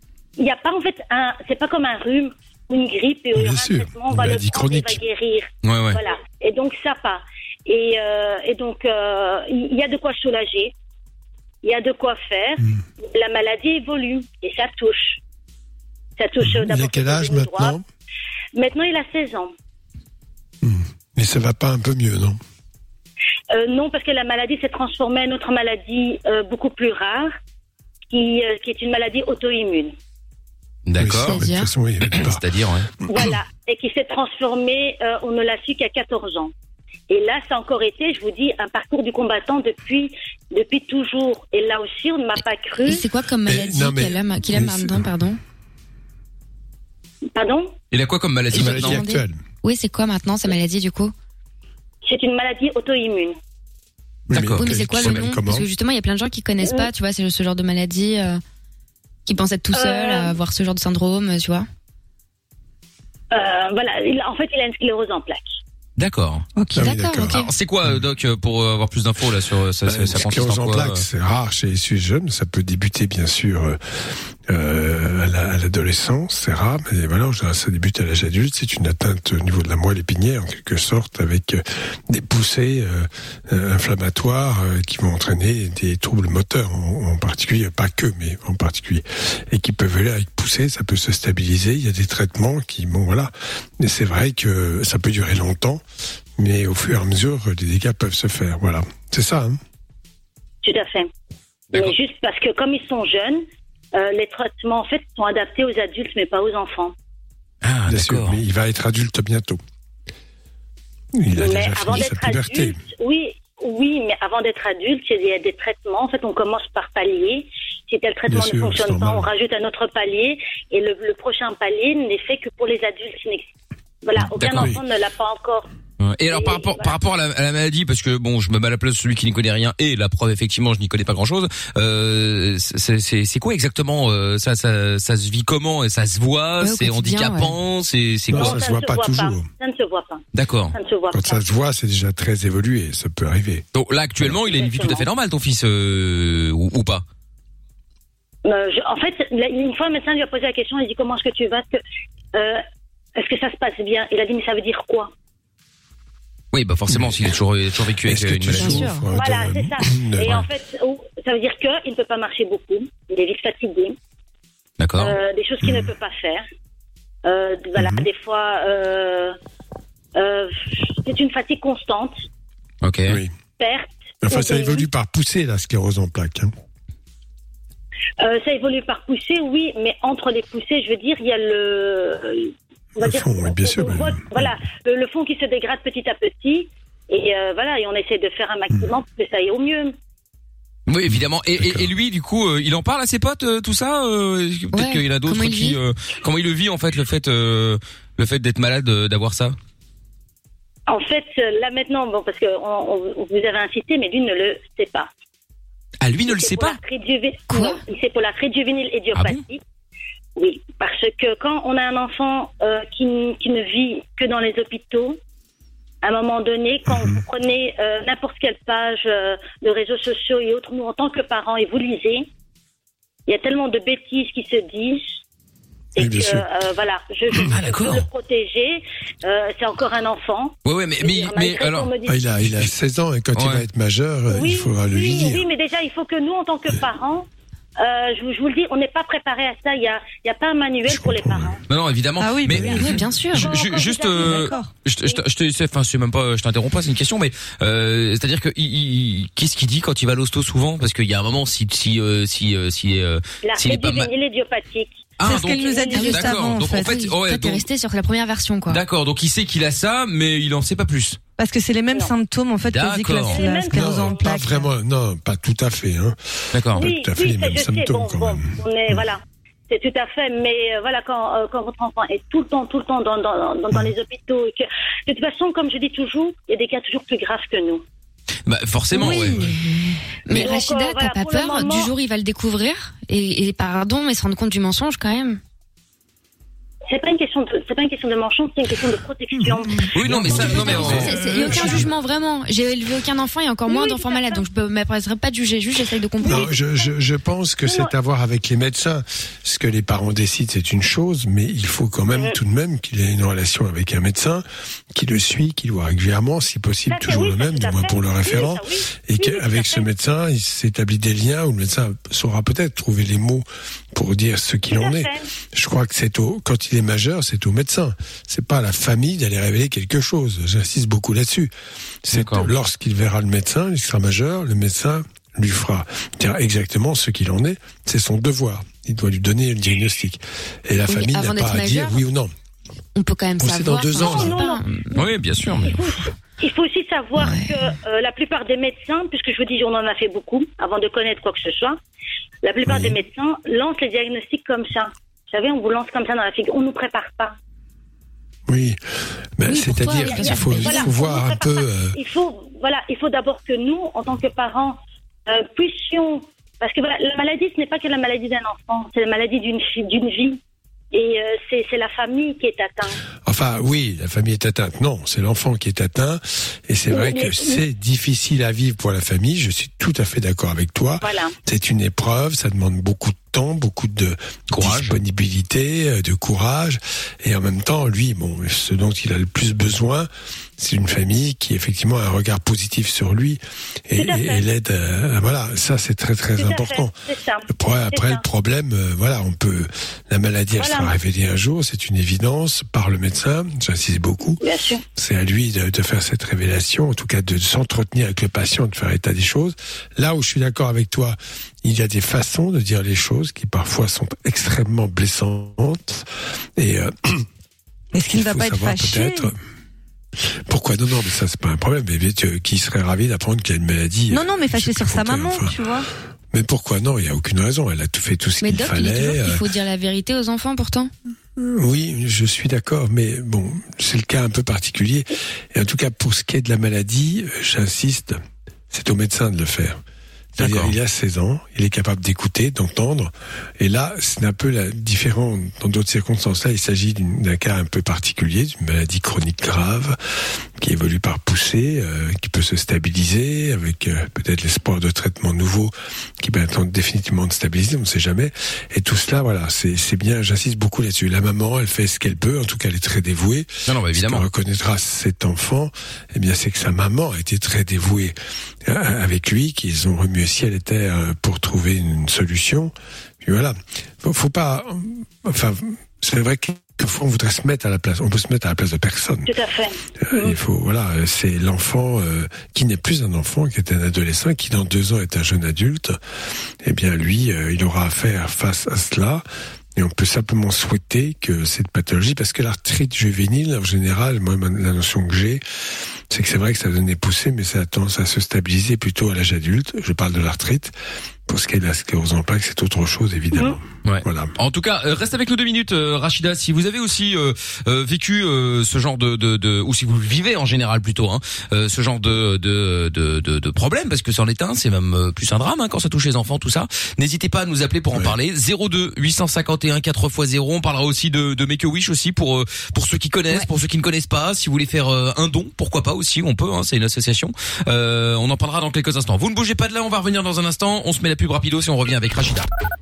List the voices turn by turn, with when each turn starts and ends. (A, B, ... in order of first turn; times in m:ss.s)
0:00.4-0:10.7 A
0:03.3-0:05.0 B
0:05.6-0:06.0 C
0:11.6-0:15.2 A
0:16.2-0:17.8 A
0:16.4-0:17.8 B
0:18.6-0:19.5 A
0:20.6-0:22.4 B
0:23.5-0:27.3 A
0:28.1-0:29.9 A
0:30.8-0:31.4 C
0:31.0-0:32.4 B
0:31.3-0:31.7 D
0:32.0-0:32.9 C
0:33.0-0:33.3 B
0:33.1-0:36.5 A
0:37.1-0:43.0 A
0:42.8-0:45.4 D
0:43.4-0:45.1 B
0:47.3-0:47.7 A
0:47.9-0:49.0 C
0:48.5-0:49.4 B
0:48.5-0:51.1 D
0:52.0-0:53.4 A
0:54.3-0:55.7 B
0:54.3-0:55.3 C
0:54.6-0:58.4 D
0:56.6-0:56.9 A
0:59.2-1:01.6 D
0:59.7-1:00.3 A
1:03.3-1:05.6 A
1:06.0-1:06.5 C
1:06.7-1:07.4 B
1:06.8-1:07.5 D
1:07.3-1:11.0 C
1:09.8-1:35.8 B
1:36.4-1:39.6 B
1:40.6-1:41.1 A
1:41.7-1:46.9 A
1:47.6-1:48.4 C
1:47.9-1:49.6 B
1:51.1-1:52.8 B
1:51.4-2:03.5 A
1:58.3-1:59.3 B
2:04.0-2:05.7 A
2:04.4-2:04.7 C
2:04.5-2:04.8 B
2:06.0-2:18.6 C
2:06.3-2:07.0 A
2:16.6-2:17.5 D
2:18.3-2:19.5 B
2:18.4-2:21.4 A
2:20.3-2:20.7 C
2:21.1-2:23.6 B
2:23.7-2:27.0 C
2:24.4-2:25.0 A
2:28.4-2:31.8 A
2:32.3-2:32.6 A
2:33.2-2:35.1 A
2:36.5-2:38.9 C
2:36.9-2:37.3 B
2:38.0-2:40.5 B
2:38.6-2:39.0 E
2:39.1-2:44.0 A
2:44.8-2:45.2 C
2:45.0-2:46.4 A
2:45.6-2:45.9 B
2:47.2-2:49.4 A
2:47.8-2:48.0 B
2:50.2-2:52.2 A
2:52.8-2:53.2 C
2:53.1-2:53.3 B
2:53.6-2:54.8 A
2:54.2-2:56.5 B
2:58.2-3:09.9 A
3:03.0-3:04.5 B
3:10.9-3:19.6 C
3:11.6-3:11.9 B
3:14.7-3:15.8 D
3:20.9-3:25.1 A
3:26.0-3:26.8 C
3:26.2-3:29.6 A
3:27.5-3:27.8 D
3:29.1-3:29.4 C
3:30.4-3:35.2 A
3:36.0-3:42.3 A
3:36.9-3:37.2 B
3:43.3-3:45.2 A
3:46.0-3:52.2 A
3:46.0-3:46.4 B
3:47.4-3:48.1 C
3:50.6-3:51.9 C
3:52.0-3:55.4 B
3:53.3-3:53.6 C
3:54.3-3:57.2 A
3:57.8-4:01.6 A
4:00.9-4:01.6 B
4:01.7-4:14.1 C
4:02.2-4:03.4 E
4:02.6-4:03.5 D
4:03.3-4:05.2 A
4:04.2-4:04.7 E
4:13.4-4:16.2 A
4:15.2-4:17.6 C
4:15.2-4:17.0 E
4:15.9-4:18.8 D
4:18.7-4:21.2 C
4:21.4-4:24.7 E
4:22.7-4:23.4 C
4:23.3-4:24.2 A
4:23.7-4:29.0 B
4:26.5-4:26.8 C
4:26.7-4:37.8 A
4:38.4-4:39.5 C
4:38.9-4:40.0 E
4:40.2-4:45.4 D
4:40.3-4:41.9 A
4:46.9-4:49.9 A
4:49.4-4:51.9 B
4:49.9-4:51.6 C
4:50.2-4:56.5 D
4:50.5-4:51.0 A
4:53.7-4:54.4 A
4:56.2-5:21.5 B
4:56.2-4:56.9 A
4:57.6-4:57.9 A
5:06.9-5:09.9 A
5:14.7-5:15.3 A
5:22.0-5:32.3 B
5:22.1-5:22.5 C
5:30.9-5:32.0 D
5:32.9-5:35.7 D
5:33.4-5:34.4 B
5:34.0-5:34.6 A
5:34.9-5:35.9 C
5:35.6-5:41.8 A
5:37.1-5:37.6 D
5:42.4-5:47.4 A
5:42.6-5:43.0 B
5:48.5-5:52.0 B
5:49.4-5:50.9 D
5:50.0-6:00.4 A
6:00.9-6:03.0 A
6:03.2-6:26.9 B
6:06.9-6:07.6 A
6:11.0-6:11.3 A
6:14.5-6:15.0 C
6:24.0-6:24.4 A
6:26.4-6:28.2 A
6:27.5-6:34.4 B
6:30.6-6:30.9 A
6:34.4-6:34.8 A
6:34.9-6:47.3 B
6:47.9-6:49.3 E
6:48.1-6:49.3 B
6:50.2-6:55.5 B
6:54.1-6:55.9 E
6:56.3-6:59.5 B
6:58.4-7:00.9 D
7:01.4-7:08.2 B
7:08.7-7:09.8 B
7:10.4-7:10.7 C
7:10.4-7:20.0 B
7:20.6-7:49.3 B
7:33.6-7:34.2 C
7:49.2-7:50.4 A
7:50.0-7:56.0 B
7:56.6-7:59.2 B
7:59.8-8:05.4 B
8:06.1-8:10.7 B
8:11.3-8:14.3 B
8:13.8-8:42.5 C